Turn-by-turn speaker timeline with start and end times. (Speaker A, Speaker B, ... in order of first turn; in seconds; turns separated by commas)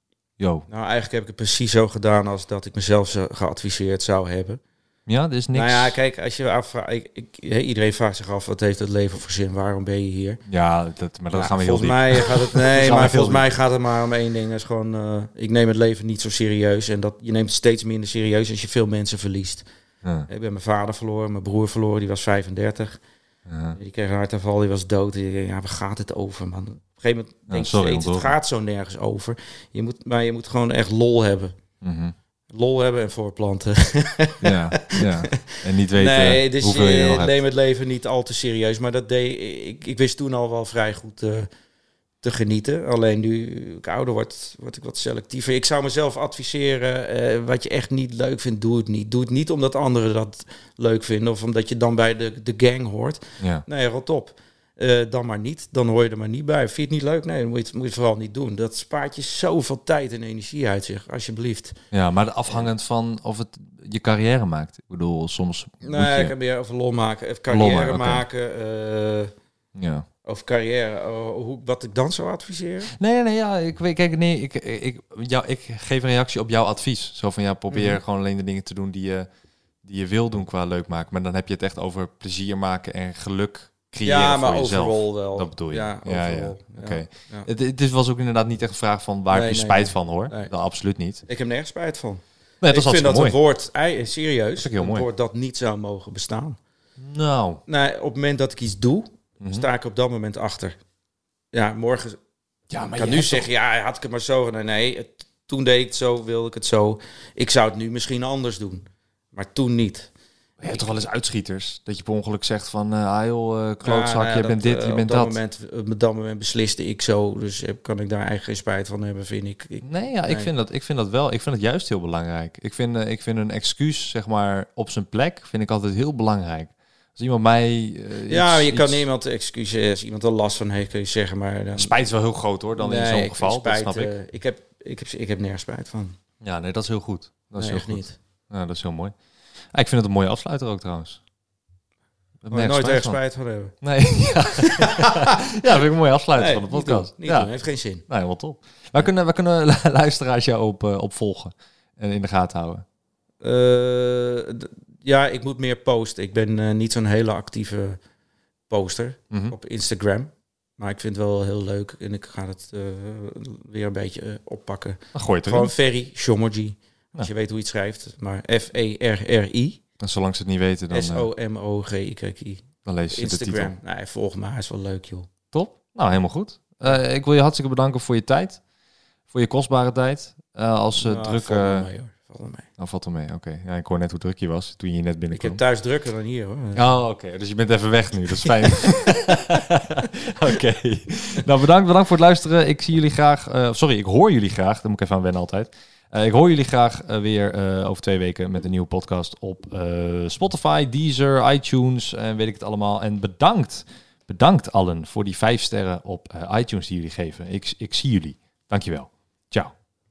Speaker A: 0.4-0.7, Speaker B: 0.7-4.6, Speaker A: 5.1-6.0, Speaker B: 5.5-10.4, Speaker A: 10.5-13.5, Speaker B: 11.3-19.7, Speaker A: 20.0-20.3, Speaker B: 20.3-23.0, Speaker A: 23.5-23.8, Speaker B: 23.8-31.5, Speaker A: 27.5-28.4, Speaker A: 31.8-32.1, Speaker B: 32.5-41.5, Speaker A: 34.4-37.4, Speaker B: 42.2-61.8, Speaker A: 53.4-53.6, Speaker A: 61.9-66.3, Speaker B: 65.8-69.3, Speaker A: 67.5-68.2, Speaker A: 69.8-70.1, Speaker B: 70.2-72.9, Speaker A: 72.9-79.3, Speaker B: 77.7-78.0, Speaker A: 79.8-91.2, Speaker B: 84.0-87.5, Speaker B: 89.3-90.5, Speaker B: 91.3-96.6, Speaker A: 92.6-93.4, Speaker A: 94.6-95.1, Speaker A: 97.0-97.6, Speaker B: 97.7-100.8, Speaker A: 99.4-99.7, Speaker B: 101.5-102.2, Speaker A: 102.7-103.5, Speaker B: 102.9-110.1, Speaker A: 110.6-115.4, Speaker B: 113.8-120.5, Speaker A: 119.8-129.1, Speaker B: 128.3-131.9, Speaker A: 131.8-134.2, Speaker B: 132.8-136.2, Speaker A: 136.4-139.1, Speaker B: 137.6-138.2, Speaker A: 139.7-141.2, Speaker A: 142.4-143.2, Speaker B: 142.5-143.8, Speaker A: 143.8-147.5, Speaker B: 144.6-145.6, Speaker B: 146.4-148.0, Speaker A: 148.1-152.8, Speaker B: 153.4-158.0, Speaker B: 158.7-169.8, Speaker A: 165.1-165.7, Speaker A: 170.0-171.3, Speaker B: 170.9-175.3, Speaker A: 172.8-173.7, Speaker A: 175.5-178.6, Speaker A: 179.3-181.9, Speaker B: 181.0-182.7, Speaker A: 182.8-185.6, Speaker B: 185.3-186.9, Speaker A: 186.8-209.7, Speaker B: 188.4-189.3